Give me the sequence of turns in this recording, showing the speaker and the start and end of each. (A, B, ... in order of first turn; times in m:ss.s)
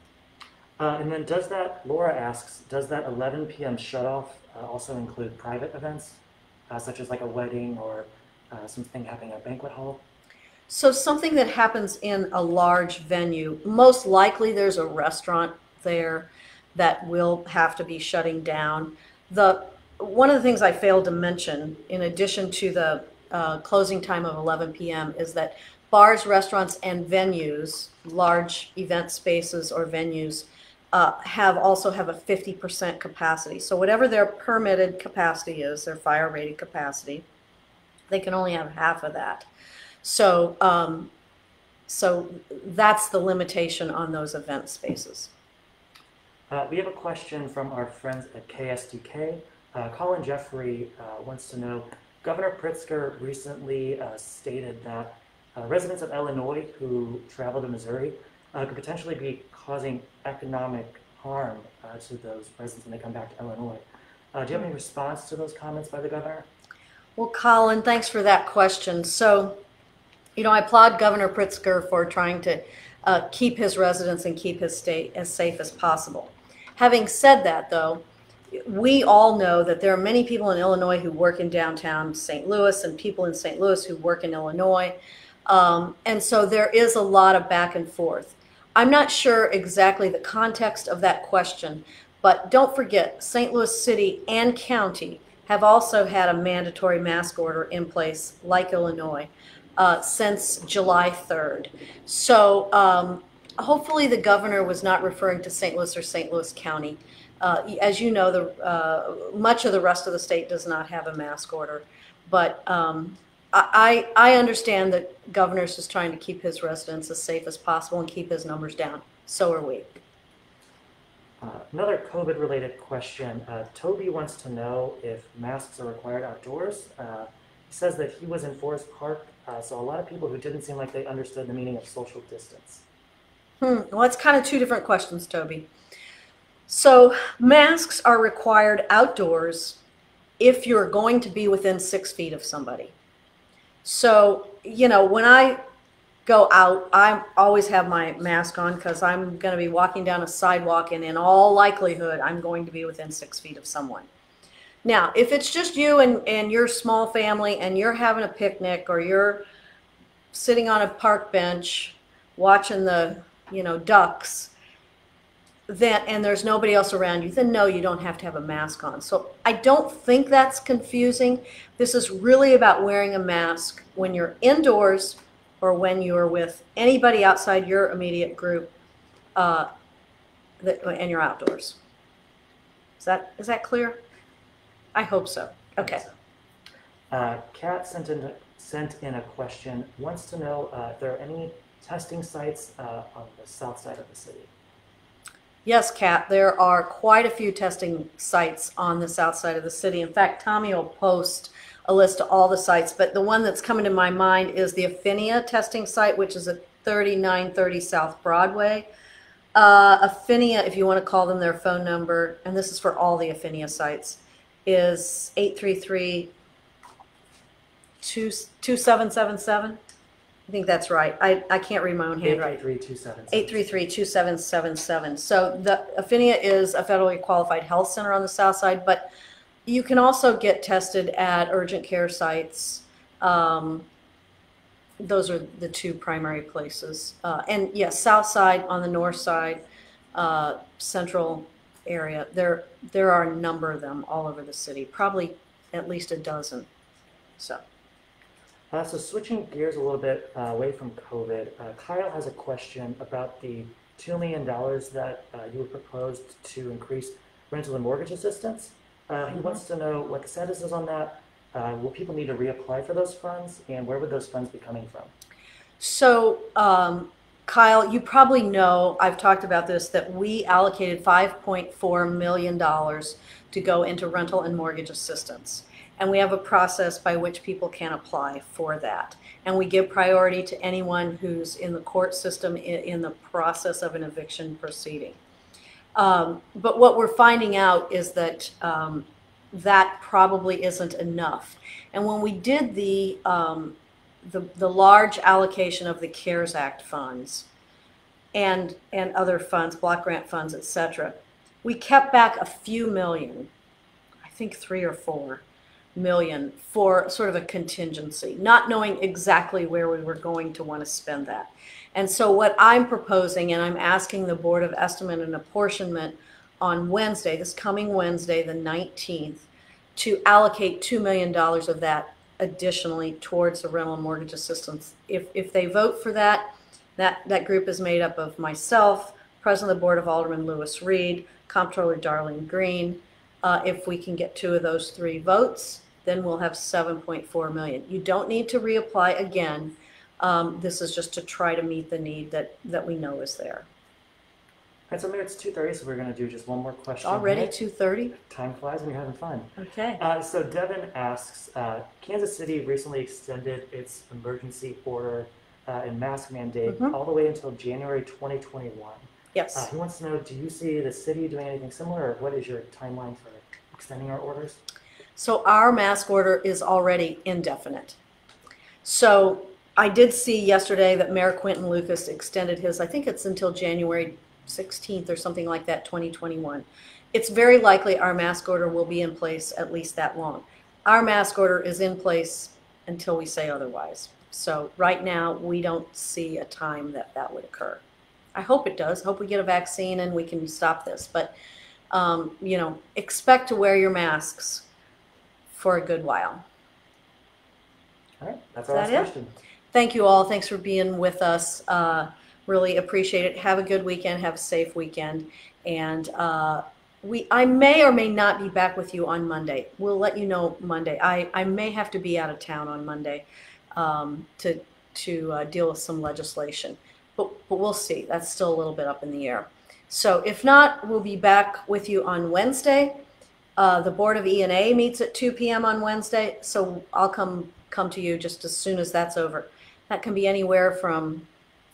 0:00.8-0:10.0 A
0:10.7-0:37.2 B
0:38.1-0:39.5 B
0:40.0-0:41.1 B
0:41.9-0:45.3 B
0:46.5-1:06.5 A
1:07.2-1:09.6 B
1:10.4-1:25.0 B
1:25.5-2:00.0 B
2:01.4-2:12.8 A
2:13.6-2:15.7 B
2:16.7-2:19.8 B
2:20.4-2:22.9 B
2:23.8-2:25.6 B
2:26.3-2:34.1 B
2:34.8-2:39.4 B
2:40.3-2:44.5 B
2:45.7-2:58.7 B
2:59.4-2:59.7 B
3:00.6-3:01.8 B
3:03.0-3:04.0 B
3:05.0-3:06.0 B
3:05.8-3:06.1 A
3:07.1-3:14.5 A
3:15.6-3:28.9 B
3:29.6-3:36.3 B
3:38.0-3:39.8 B
3:40.5-3:42.6 B
3:42.2-3:43.7 A
3:43.3-3:49.1 B
3:49.7-3:53.9 B
3:55.0-3:59.6 B
4:00.1-4:06.7 B
4:07.4-4:07.6 B
4:08.7-4:25.1 A
4:25.8-4:45.2 B
4:46.0-4:57.5 B
4:58.3-5:03.5 B
5:04.2-5:05.4 B
5:06.0-5:43.7 B
5:44.9-5:47.5 A
5:47.0-5:48.2 B
5:48.2-6:04.6 A
5:49.6-5:50.0 B
5:56.7-5:57.0 B
5:59.3-5:59.7 B
6:05.2-6:08.0 B
6:08.8-6:27.8 B
6:28.4-6:31.3 B
6:31.9-6:34.7 B
6:35.5-6:36.4 B
6:38.2-6:39.3 A
6:38.7-6:39.1 B
6:39.7-6:53.2 B
6:53.8-7:03.0 B
7:03.6-7:11.3 B